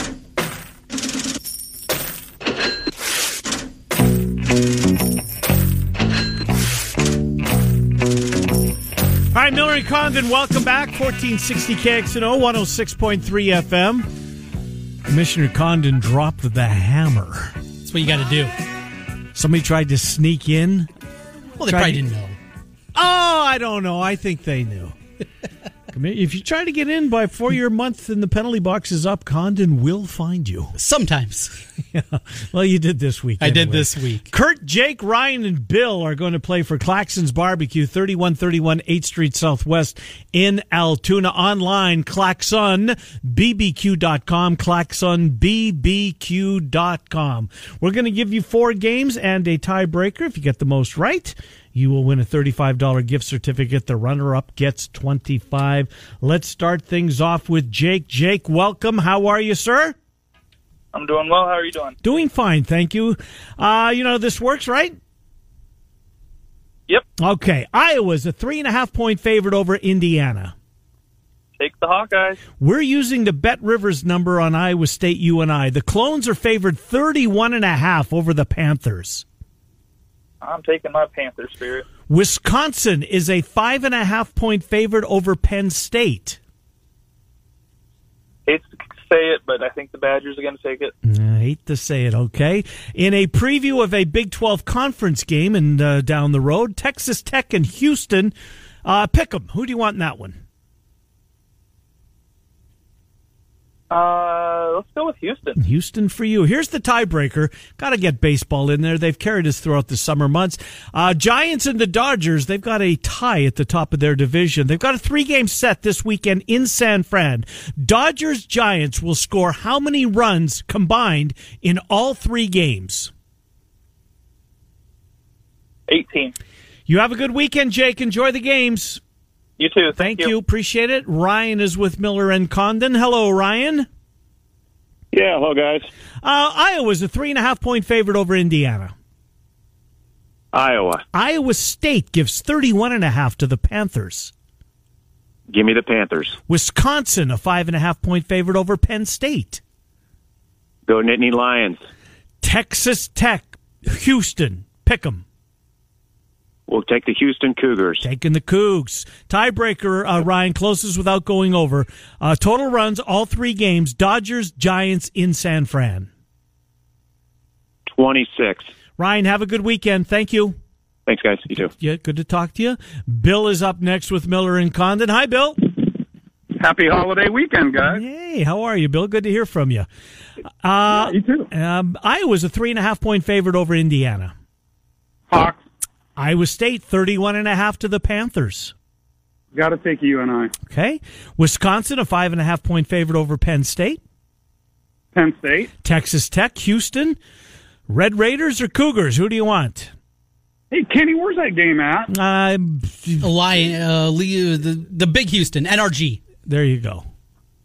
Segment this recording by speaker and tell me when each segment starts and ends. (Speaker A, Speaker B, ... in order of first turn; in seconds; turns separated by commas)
Speaker A: 9.3-14.1, Speaker A: 15.1-17.6, Speaker B: 17.9-18.5, Speaker A: 19.4-20.9, Speaker B: 21.6-22.4, Speaker A: 21.7-22.0, Speaker A: 22.9-24.9, Speaker A: 25.9-30.8, Speaker B: 30.8-31.6, Speaker A: 31.9-60.0, Speaker B: 33.4-34.3, Speaker C: 60.9-62.0, Speaker A: 62.0-65.0, Speaker A: 67.2-70.5, Speaker C: 71.6-72.4, Speaker A: 72.6-79.2, Speaker C: 80.4-81.9, Speaker A: 82.1-86.4, Speaker C: 88.5-90.9, Speaker A: 91.0-98.3, Speaker A: 98.8-100.4, Speaker C: 103.9-105.6, Speaker A: 105.6-123.1, Speaker C: 125.9-126.3, Speaker A: 126.9-129.0, Speaker C: 129.6-130.3, Speaker A: 130.0-133.9, Speaker D: 135.1-135.9, Speaker A: 136.2-138.9, Speaker D: 140.5-141.0, Speaker A: 141.1-144.3, Speaker D: 145.5-146.4, Speaker A: 146.5-149.6, Speaker D: 150.9-151.8, Speaker A: 152.4-155.2, Speaker D: 156.7-158.0, Speaker A: 158.0-166.1, Speaker D: 167.9-168.7, Speaker A: 169.0-170.6, Speaker D: 171.1-171.7, Speaker A: 171.8-175.7, Speaker E: 176.6-178.0, Speaker A: 177.8-179.9, Speaker A: 180.6-184.3, Speaker E: 180.9-181.5, Speaker E: 185.3-185.6, Speaker A: 186.2-188.7, Speaker E: 189.5-190.5, Speaker A: 190.7-194.0, Speaker E: 195.1-195.7, Speaker A: 195.8-197.2, Speaker A: 197.9-199.9, Speaker E: 200.7-202.1, Speaker A: 202.1-203.3, Speaker B: 203.2-206.2, Speaker A: 206.4-207.1